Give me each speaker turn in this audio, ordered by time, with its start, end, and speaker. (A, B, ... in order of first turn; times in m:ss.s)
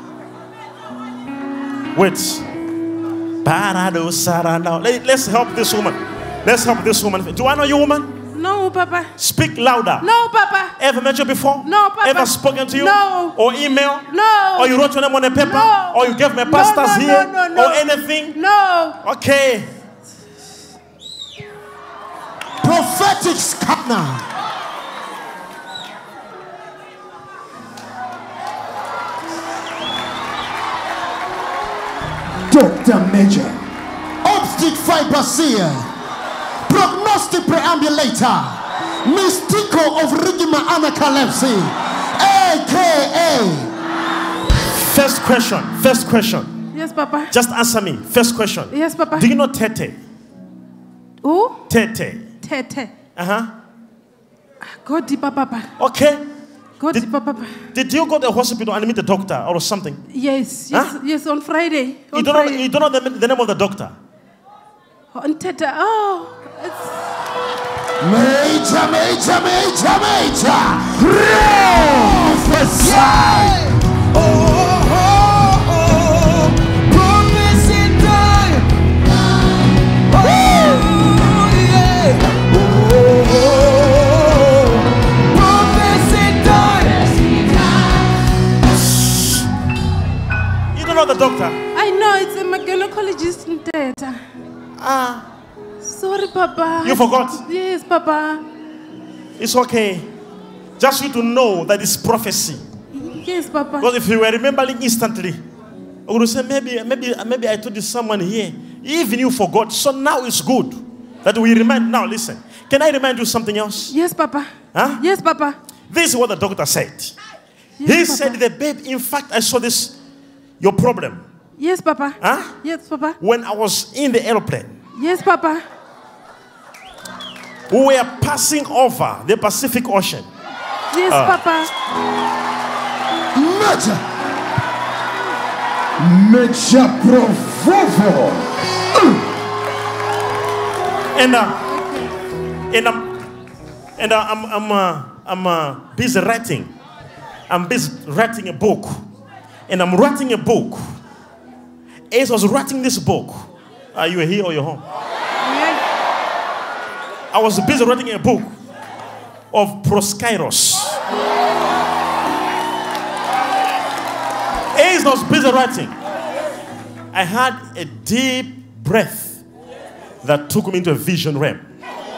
0:01.9-0:02.4 A
0:03.4-0:08.2 A
0:08.3-0:09.1 B
0:09.2-0:10.1 A
0:10.0-0:10.8 B
0:10.8-0:18.4 A
0:11.6-0:13.4 B
0:14.1-0:14.8 B
0:15.3-0:19.0 B
0:19.0-0:19.7 A
0:22.6-0:24.2 C
0:32.5-0:33.6 C
0:34.2-0:35.9 C
0:36.6-0:43.7 C
0:44.7-0:46.6 A
0:46.7-0:47.3 B
0:47.3-0:50.0 A
0:48.7-0:49.3 B
0:51.2-0:51.6 B
0:51.7-0:52.3 A
0:52.4-0:52.9 B
0:53.2-0:53.5 A
0:54.6-0:55.7 B
0:55.8-0:56.2 A
0:56.8-0:57.6 B
0:57.7-1:00.0 A
1:00.1-1:02.6 B
1:00.7-1:01.0 A
1:02.1-1:03.9 A
1:05.1-1:07.0 B
1:08.0-1:13.6 C
1:12.8-1:18.7 D
1:20.1-1:27.2 D
1:20.8-1:21.2 B
1:30.7-1:31.6 A
1:31.7-1:34.2 B
1:34.8-1:35.2 A
1:35.8-1:38.4 B
1:36.8-1:37.4 A
1:39.4-1:40.1 A
1:40.8-1:42.6 A
1:42.9-1:43.9 B
1:43.8-1:45.4 A
1:46.0-1:53.9 A
1:53.9-1:55.6 B
1:54.7-1:55.0 A
1:55.9-1:57.2 A
1:57.8-1:58.4 B
1:57.8-2:00.0 A
2:00.6-2:01.2 A
2:01.6-2:03.2 B
2:02.2-2:02.5 A
2:03.2-2:04.8 A
2:04.9-2:05.6 B
2:07.7-2:10.2 A
2:10.9-2:11.7 B
2:11.1-2:11.4 A
2:13.3-2:14.0 C
2:16.0-2:18.5 C
2:21.1-2:21.6 A
2:21.7-2:22.1 B
2:22.7-2:23.2 A
2:24.0-2:26.7 A
2:27.5-2:29.0 A
2:29.7-2:30.8 A
2:32.1-2:34.8 A
2:35.4-2:35.8 B
2:37.3-2:38.5 A
2:39.5-2:41.0 A
2:44.7-2:45.9 A
2:47.1-2:49.4 A
2:50.2-2:51.6 A